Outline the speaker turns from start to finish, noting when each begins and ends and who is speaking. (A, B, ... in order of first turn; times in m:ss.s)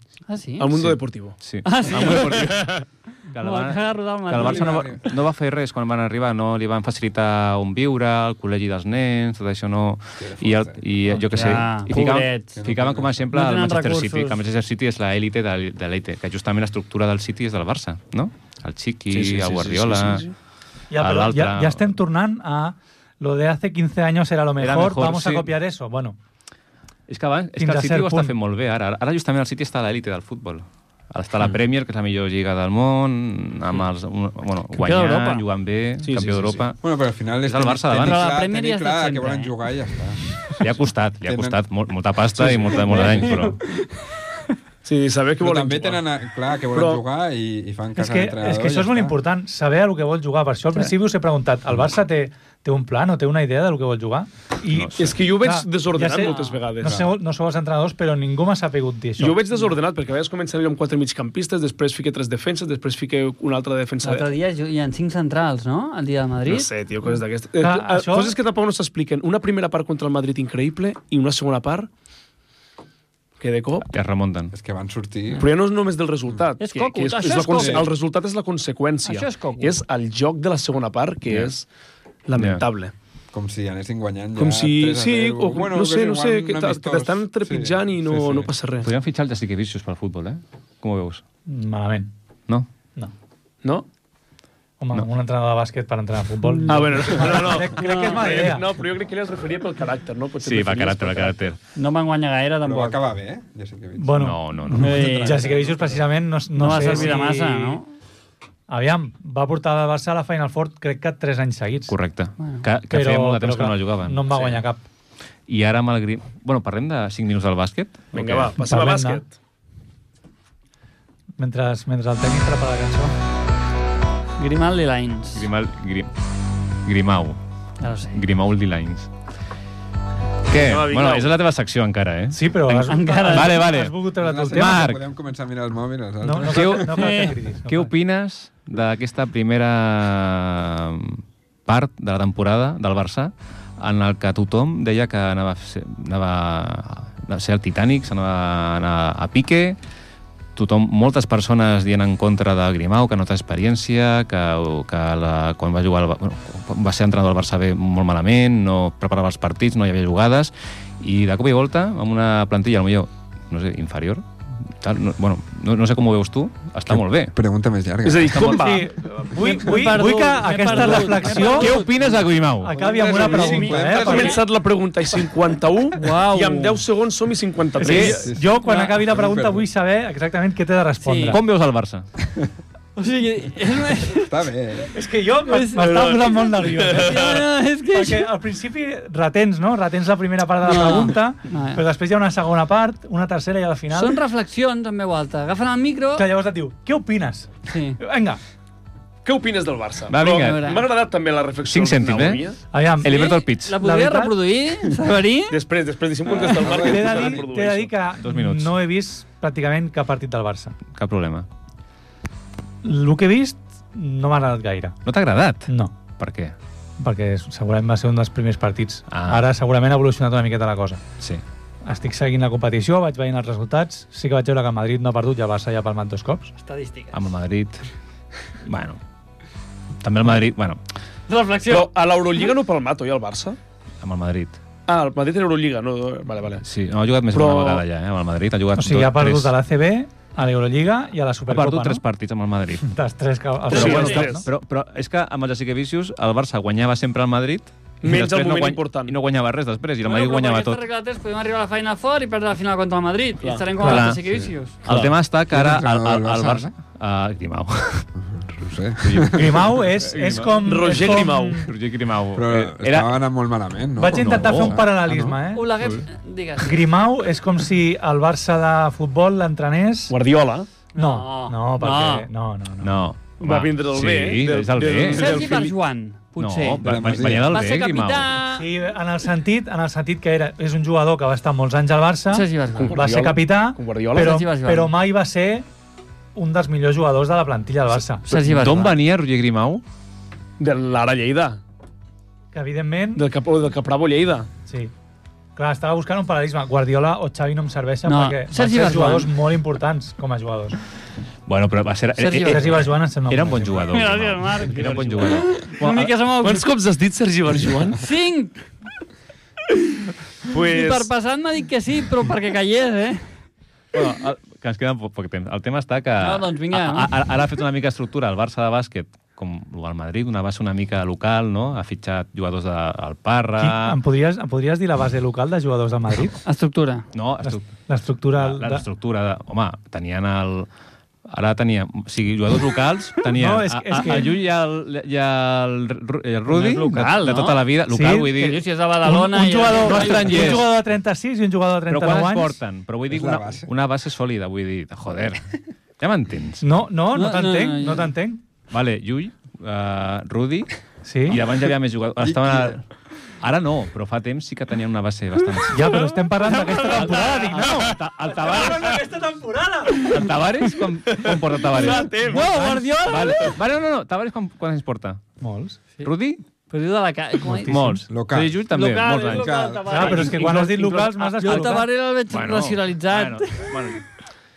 0:00.3-0:00.7 A
0:00.6-0:01.4 B
0:00.9-0:20.3 C
0:01.6-0:02.6 A
0:03.4-0:05.0 A
0:04.3-0:05.1 D
0:10.2-0:10.8 D
0:11.3-0:12.6 A
0:12.6-0:13.3 D
0:13.3-0:14.4 A
0:19.1-0:20.3 B
0:20.9-0:26.2 E
0:21.0-0:21.8 C
0:24.6-0:25.5 C
0:27.1-0:36.8 C
0:27.6-0:28.3 E
0:34.8-0:35.4 A
0:36.0-0:36.6 B
0:36.8-0:40.4 D
0:37.4-0:38.2 C
0:38.0-0:39.5 A
0:40.6-0:43.6 C
0:41.3-0:41.6 D
0:42.4-0:43.3 B
0:42.9-0:43.8 A
0:44.8-0:46.0 B
0:45.4-0:49.2 D
0:46.7-0:47.0 B
0:48.0-0:59.5 E
0:54.7-0:55.1 C
0:55.0-0:57.0 B
0:56.2-0:56.6 A
0:56.8-0:57.1 D
0:59.2-1:04.3 B
1:04.0-1:06.7 A
1:06.5-1:11.9 B
1:07.6-1:08.4 E
1:13.4-1:13.9 B
1:13.8-1:14.5 C
1:14.5-1:15.5 D
1:15.4-1:21.7 B
1:16.6-1:17.9 A
1:17.6-1:17.9 D
1:19.0-1:19.8 A
1:22.3-1:22.9 B
1:22.4-1:22.6 C
1:23.3-1:28.5 D
1:24.4-1:28.9 B
1:28.8-1:31.2 C
1:31.5-1:32.1 E
1:34.8-1:38.7 E
1:36.4-1:36.8 A
1:36.7-1:41.5 B
1:37.4-1:38.5 A
1:40.4-1:41.6 C
1:41.8-1:43.0 A
1:42.6-1:44.3 D
1:44.0-1:47.8 E
1:44.2-1:45.1 C
1:44.7-1:45.6 A
1:44.8-1:46.0 B
1:46.6-1:47.9 A
1:46.7-1:47.0 B
1:48.7-1:51.9 E
1:51.9-1:54.6 C
1:52.9-1:54.8 E
1:55.5-1:58.6 C
1:58.1-1:59.4 B
1:58.6-1:59.2 E
2:01.4-2:03.1 E
2:04.4-2:05.5 A
2:05.4-2:06.1 C
2:06.8-2:07.4 C
2:07.8-2:08.2 A
2:08.2-2:09.1 C
2:10.5-2:14.0 C
2:10.5-2:11.3 B
2:12.3-2:14.9 E
2:12.9-2:13.6 A
2:14.2-2:17.0 D
2:14.5-2:15.0 C
2:16.2-2:17.9 E
2:16.4-2:29.8 C
2:16.9-2:17.4 A
2:30.6-2:47.3 C
2:46.9-2:48.7 D
2:48.0-2:48.9 B
2:48.4-2:51.8 E
2:49.4-2:52.3 A
2:51.4-2:52.8 C
2:52.6-2:54.4 E
2:52.8-2:58.2 B
2:52.8-2:54.4 D
2:53.5-2:54.3 A
2:55.9-2:56.8 A
2:57.8-2:58.3 C
2:57.8-3:01.4 E
2:58.1-2:59.7 D
2:58.6-2:59.0 A
3:01.0-3:01.4 A
3:01.3-3:02.0 C
3:03.0-3:04.3 A
3:04.1-3:04.9 D
3:04.9-3:07.4 E
3:05.5-3:08.3 A
3:07.9-3:14.2 E
3:10.6-3:11.8 A
3:13.9-3:16.3 A
3:16.2-3:18.4 E
3:17.7-3:18.0 A
3:19.2-3:22.6 B
3:20.1-3:20.8 C
3:20.2-3:20.9 A
3:21.7-3:22.5 C
3:22.7-3:24.4 E
3:23.0-3:23.8 C
3:23.0-3:25.6 A
3:25.5-3:28.0 B
3:26.4-3:27.4 D
3:26.6-3:30.8 E
3:28.2-3:28.8 C
3:30.8-3:31.5 C
3:32.8-3:35.0 E
3:35.0-3:36.6 C
3:35.7-3:36.0 E
3:37.0-3:41.0 E
3:39.1-3:39.4 C
3:41.8-3:46.5 E
3:46.6-3:47.2 A
3:47.1-3:47.9 C
3:48.7-3:49.0 C
3:50.0-3:50.8 C
3:51.3-3:51.9 A
3:51.7-3:53.6 B
3:54.0-3:54.6 C
3:54.9-3:56.6 B
3:56.6-3:59.6 C
3:57.3-3:57.8 B
3:58.8-4:02.0 E
4:01.5-4:02.9 C
4:02.8-4:04.5 E
4:03.7-4:04.3 A
4:03.7-4:04.5 B
4:03.7-4:10.8 C
4:08.0-4:09.2 B
4:10.0-4:14.8 A
4:13.4-4:13.7 B
4:13.8-4:14.1 E
4:13.8-4:18.1 C
4:14.4-4:16.7 D
4:18.2-4:19.7 D
4:19.0-4:23.1 C
4:19.3-4:21.7 E
4:20.6-4:21.7 B
4:22.4-4:25.4 D
4:24.0-4:25.7 E
4:24.2-4:25.3 C
4:25.5-4:26.9 A
4:26.6-4:30.2 E
4:30.1-4:30.7 B
4:31.0-4:32.3 A
4:31.0-4:33.0 E
4:32.8-4:35.4 C
4:33.4-4:35.8 B
4:35.2-4:38.7 A
4:36.4-4:38.3 C
4:36.8-4:37.6 D
4:38.5-4:45.7 E
4:42.3-4:43.0 A
4:42.8-4:44.4 B
4:44.2-4:44.9 A
4:46.4-4:48.4 E
4:48.2-4:49.0 A
4:48.3-4:49.8 C
4:50.6-4:51.6 B
4:52.5-4:53.2 E
4:53.2-4:54.5 B
4:54.7-4:54.9 E
4:55.6-5:00.8 E
4:58.0-4:59.3 A
5:01.5-5:06.1 C
5:02.2-5:02.8 A
5:02.4-5:04.0 E
5:03.9-5:06.6 A
5:06.4-5:08.0 B
5:07.9-5:08.6 A
5:10.4-5:11.1 B
5:10.5-5:13.3 A
5:13.9-5:24.0 C
5:16.2-5:17.1 A
5:23.6-5:26.4 E
5:26.4-5:27.1 A
5:27.1-5:27.8 C
5:27.4-5:28.8 E
5:28.4-5:30.7 C
5:31.3-5:38.6 C
5:33.3-5:34.4 E
5:36.5-5:37.6 A
5:37.9-5:38.3 E
5:38.3-5:40.6 A
5:39.0-5:42.6 E
5:39.7-5:40.7 C
5:41.9-5:46.6 C
5:43.1-5:43.7 D
5:46.6-5:48.4 E
5:47.1-5:48.1 A
5:48.7-5:52.9 C
5:51.0-5:51.4 E
5:52.2-5:52.8 D
5:53.4-5:56.1 C
5:55.7-6:00.4 E
5:55.8-5:57.9 A
5:56.8-5:59.0 C
6:00.0-6:05.2 C
6:01.7-6:02.4 B
6:01.7-6:03.6 A
6:02.2-6:03.1 E
6:05.4-6:05.8 E
6:06.0-6:06.4 C
6:06.7-6:07.9 A
6:07.5-6:08.0 E
6:07.6-6:09.6 C
6:08.1-6:08.6 D
6:08.7-6:13.8 A
6:09.3-6:10.2 D
6:09.9-6:11.9 E
6:10.1-6:11.6 B
6:12.3-6:14.1 C